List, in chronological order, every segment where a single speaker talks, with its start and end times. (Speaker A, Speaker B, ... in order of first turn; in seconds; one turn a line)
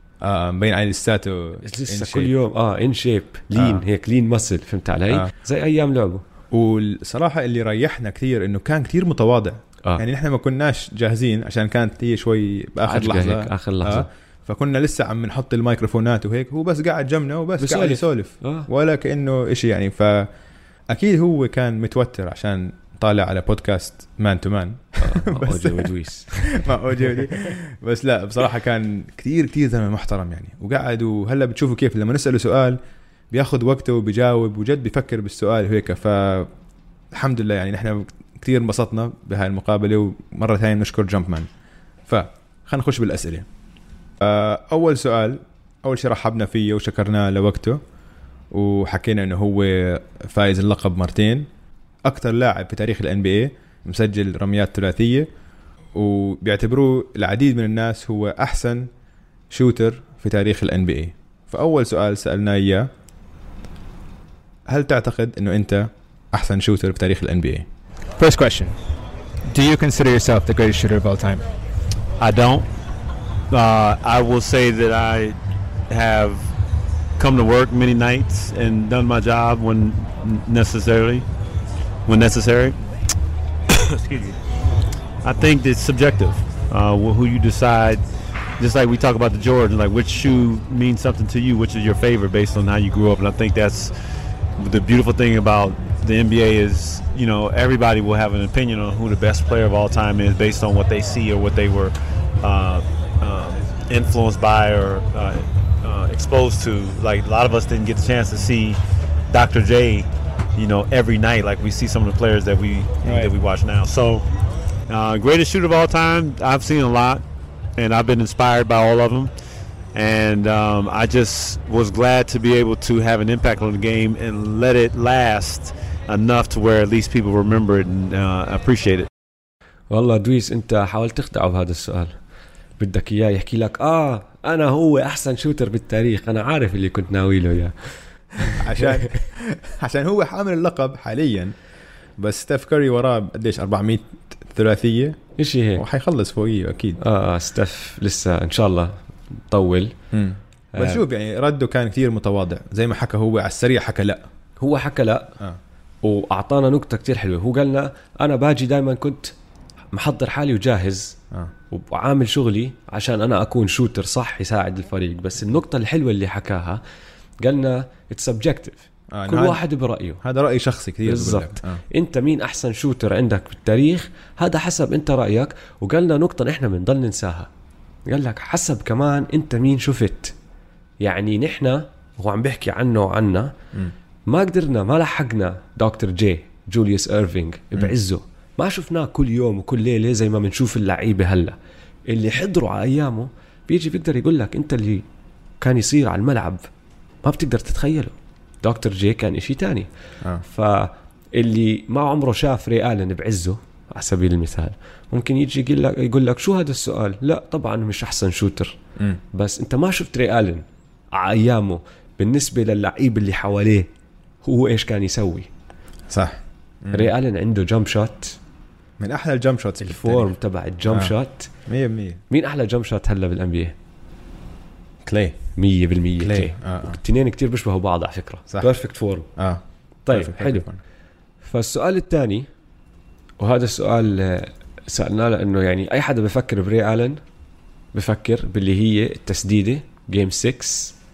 Speaker A: 0.2-2.3
Speaker B: 1.6-6.2
Speaker A: 3.5-3.8
Speaker A: 6.5-20.3
Speaker B: 12.8-14.1
Speaker B: 17.6-18.7
Speaker A: 20.9-32.8
Speaker B: 25.0-27.2
Speaker A: 33.3-36.5
Speaker A: 37.1-41.5
Speaker A: 42.1-43.5
Speaker A: 44.2-47.8
Speaker A: 48.5-51.5
Speaker A: 52.0-55.3
Speaker A: 55.9-58.9
Speaker A: 59.5-62.9
Speaker A: 64.7-67.7
Speaker C: 68.2-68.7
Speaker C: 69.5-71.4
Speaker D: 72.2-72.7
Speaker D: 73.5-75.4
Speaker D: 75.9-76.5
Speaker D: 77.2-81.2
Speaker D: 82.0-82.8
Speaker D: 83.7-84.4
Speaker D: 85.2-88.0
Speaker D: 88.6-93.9
Speaker D: 94.6-114.2
Speaker D: 114.9-117.2
Speaker D: 117.8-119.3
Speaker D: 119.9-129.1
Speaker B: 129.9-132.1
Speaker B: 132.8-139.0
Speaker A: 138.5-141.5
Speaker A: 142.2-145.2
Speaker B: 145.4-145.8
Speaker A: 145.8-147.0
Speaker B: 147.0-148.9
Speaker B: 149.5-149.9
Speaker A: 150.1-154.2
Speaker B: 150.7-151.0
Speaker B: 154.6-155.4
Speaker B: 156.0-159.3
Speaker B: 159.9-161.2
Speaker B: 161.7-166.8
Speaker B: 167.4-170.2
Speaker A: 169.1-169.6
Speaker A: 170.2-171.8
Speaker B: 171.0-177.5
Speaker B: 178.1-180.3
Speaker B: 181.0-183.5
Speaker B: 184.3-191.5
Speaker B: 192.1-195.0
Speaker B: 195.6-196.7
Speaker B: 197.2-199.9
Speaker B: 200.4-208.8
Speaker B: 209.3-213.9
Speaker B: 214.4-215.5
Speaker A: 216.1-217.1
Speaker B: 216.9-218.4
Speaker A: 219.0-220.3
Speaker B: 219.8-221.5
Speaker A: 220.9-221.1
Speaker A: 221.7-222.2
Speaker B: 222.3-223.7
Speaker A: 225.0-225.4
Speaker B: 225.6-229.3
Speaker A: 226.2-227.0
Speaker A: 229.3-230.8
Speaker B: 230.1-230.7
Speaker B: 231.4-232.5
Speaker B: 233.4-237.2
Speaker B: 237.9-240.9